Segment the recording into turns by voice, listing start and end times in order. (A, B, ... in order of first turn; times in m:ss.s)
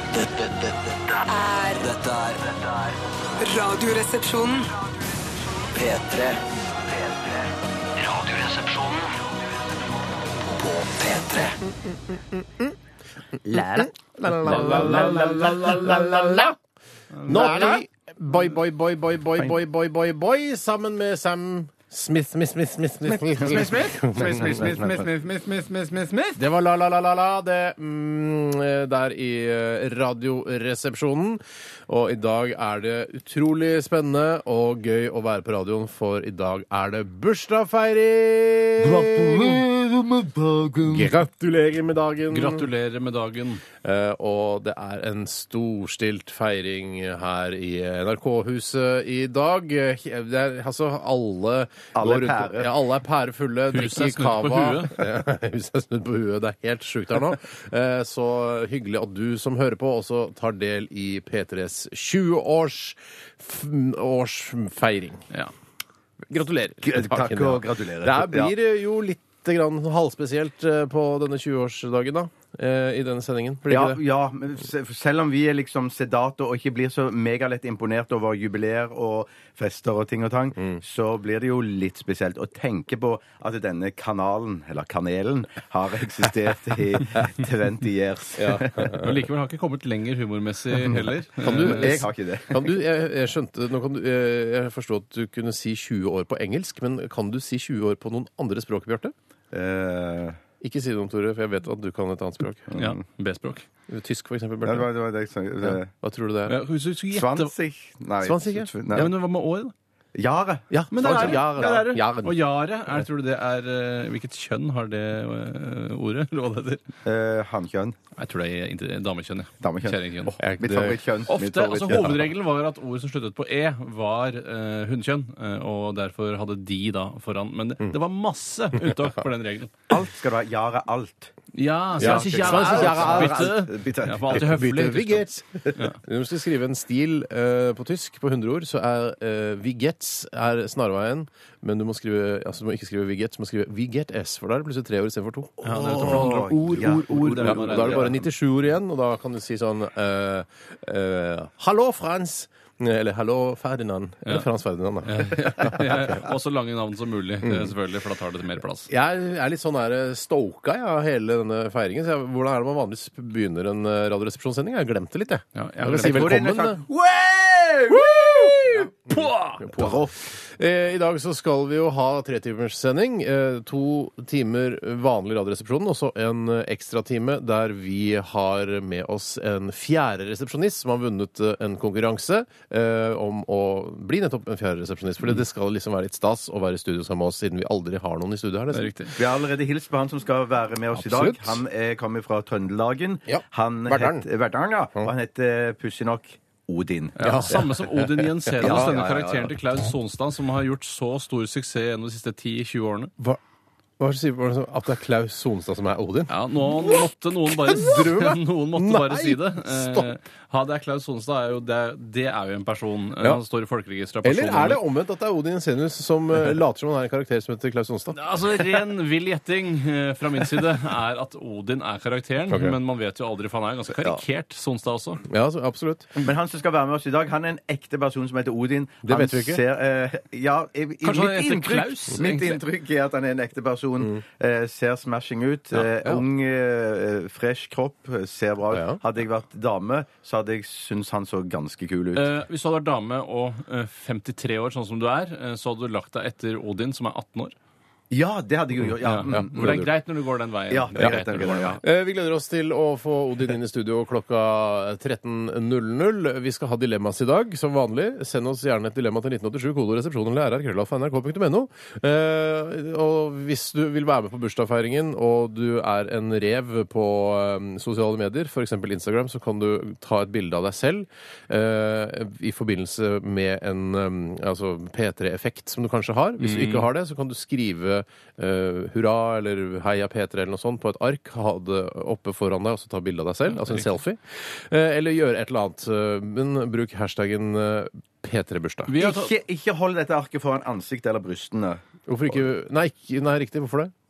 0:00.2-0:01.0 A
0:01.3-0:01.9 B
0:01.8-0:03.0 A
0:03.4-0:04.7 B
0:05.7-0:09.1 A
0:10.4-0:11.6 A
0:12.3-0:12.7 C
0:13.4-0:16.5 D
0:13.5-0:16.5 C
0:17.1-0:17.6 E
0:17.2-0:24.9 C
0:17.3-0:17.8 D
0:23.2-0:25.1 D
0:26.4-0:39.6 C
0:38.8-0:41.1 D
0:40.8-0:42.7 C
0:42.3-0:43.6 E
0:43.8-1:05.2 C
0:51.9-0:52.7 D
0:53.7-0:55.0 E
1:06.3-1:14.0 C
1:06.8-1:08.5 D
1:13.7-1:29.0 D
1:28.4-1:29.2 C
1:29.0-1:32.0 E
1:31.4-1:39.1 C
1:31.4-1:32.7 D
1:39.5-1:40.4 D
1:40.6-1:42.7 C
1:42.7-1:43.0 D
1:42.7-1:43.6 E
1:43.9-1:44.9 C
1:44.6-1:45.9 D
1:45.6-1:46.6 C
1:46.5-1:47.5 E
1:47.1-1:49.1 D
1:48.2-1:48.7 C
1:48.9-1:49.7 E
1:50.1-1:51.9 D
1:50.7-1:52.4 C
1:50.9-1:56.8 E
1:57.0-1:58.0 D
1:58.2-2:00.4 E
1:59.6-2:02.2 D
2:00.4-2:01.0 C
2:01.3-2:09.7 E
2:09.9-2:11.3 D
2:11.5-2:16.0 E
2:12.0-2:14.5 D
2:12.0-2:13.6 C
2:14.3-2:36.2 C
2:25.6-2:28.2 E
2:25.7-2:28.2 D
2:35.0-2:38.9 E
2:37.4-2:37.7 C
2:38.9-2:46.8 C
2:45.5-2:46.4 E
2:45.9-2:50.3 D
2:47.9-3:08.9 C
3:08.7-3:09.2 E
3:09.2-3:17.3 D
3:10.9-3:11.6 C
3:13.3-3:14.2 C
3:17.2-3:23.1 E
3:17.2-3:19.0 C
3:18.6-3:19.5 D
3:24.0-3:27.0 C
3:26.3-3:34.8 E
3:27.6-3:30.1 C
3:34.2-3:38.6 C
3:38.1-3:45.2 E
3:42.5-3:42.8 C
3:45.3-3:46.2 C
3:46.2-4:02.3 D
3:49.0-3:49.6 C
3:51.0-3:52.6 E
3:55.7-3:56.2 C
3:58.7-3:59.0 C
4:02.1-4:07.5 E
4:08.1-4:09.8 D
4:08.8-4:09.9 C
4:09.0-4:11.8 E
4:10.7-4:11.8 D
4:11.8-4:48.9 C
4:36.4-4:36.9 E
4:43.5-4:43.9 E
4:48.9-4:49.3 E
4:49.0-4:51.8 D
4:52.1-4:53.9 C